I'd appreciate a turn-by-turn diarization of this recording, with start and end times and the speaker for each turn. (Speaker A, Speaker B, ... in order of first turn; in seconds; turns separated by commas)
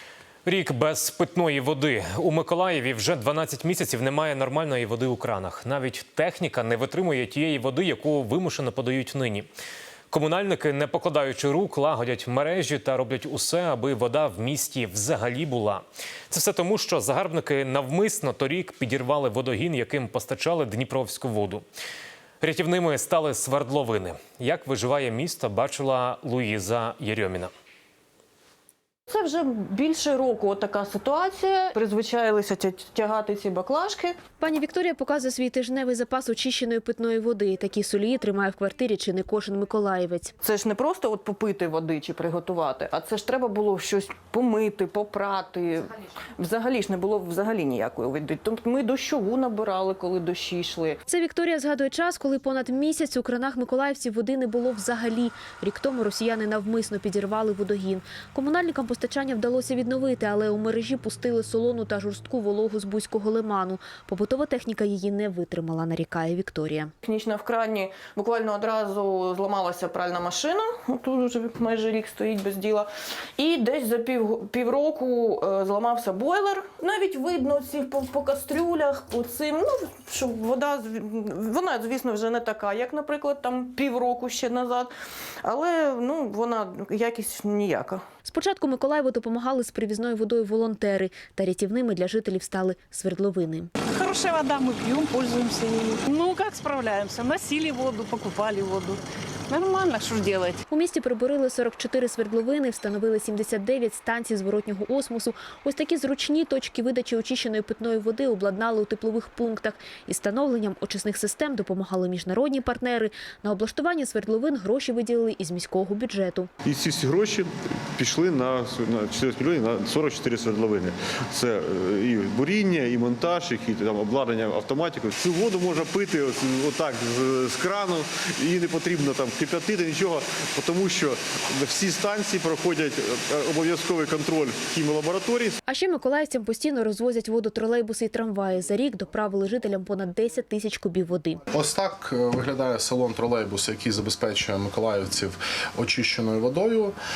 Speaker A: 0.4-9.5, Speaker A: 10.1-21.6, Speaker A: 22.4-27.5, Speaker B: 29.1-34.2, Speaker C: 34.4-40.4, Speaker B: 40.4-51.0, Speaker C: 51.1-66.9, Speaker B: 67.0-84.9, Speaker B: 85.4-88.0, Speaker C: 88.2-93.7, Speaker D: 93.9-100.6, Speaker C: 100.7-116.5, Speaker E: 116.7-135.6, Speaker C: 135.7-141.4, Speaker F: 141.5-146.9